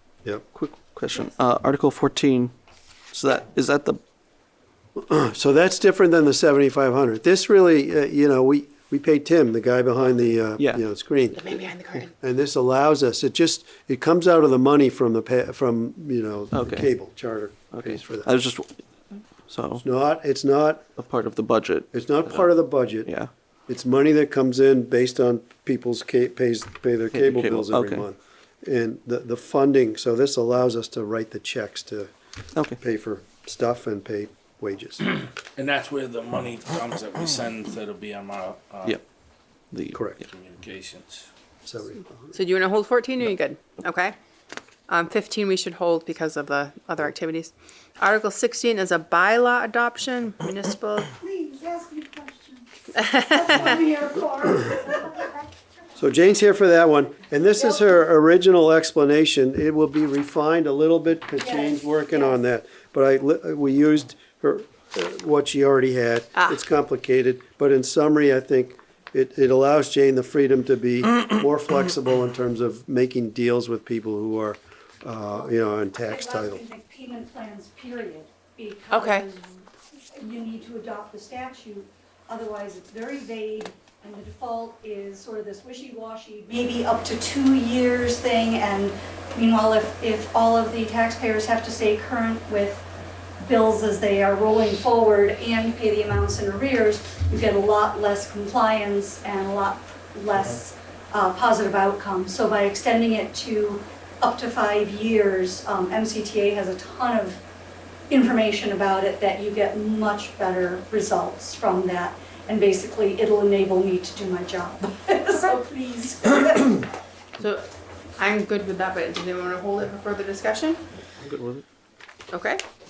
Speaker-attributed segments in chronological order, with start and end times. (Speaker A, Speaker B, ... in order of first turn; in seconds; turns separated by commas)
Speaker A: 0.5-2.5, Speaker A: 3.1-4.0, Speaker B: 5.0-11.6, Speaker A: 10.6-10.8, Speaker C: 11.3-12.1, Speaker B: 12.2-18.3, Speaker A: 16.5-16.9, Speaker A: 17.7-18.8, Speaker A: 19.5-19.8, Speaker B: 19.8-20.9, Speaker A: 21.0-22.5, Speaker B: 21.9-23.1, Speaker A: 23.1-23.3, Speaker B: 23.7-32.1, Speaker A: 27.1-28.1, Speaker B: 32.8-35.0, Speaker D: 35.6-39.0, Speaker A: 39.7-40.1, Speaker B: 39.9-40.2, Speaker D: 40.2-41.3, Speaker B: 41.6-42.3, Speaker C: 42.3-44.2, Speaker C: 44.9-51.1, Speaker E: 51.2-52.7, Speaker C: 52.9-53.8, Speaker E: 53.2-55.5, Speaker B: 56.0-76.6, Speaker E: 57.6-57.8, Speaker E: 61.4-62.4, Speaker E: 75.4-92.9, Speaker C: 78.9-79.3, Speaker E: 93.4-107.4, Speaker E: 108.1-116.9, Speaker C: 117.4-117.7, Speaker C: 118.2-120.8, Speaker A: 121.2-121.7, Speaker C: 122.3-122.6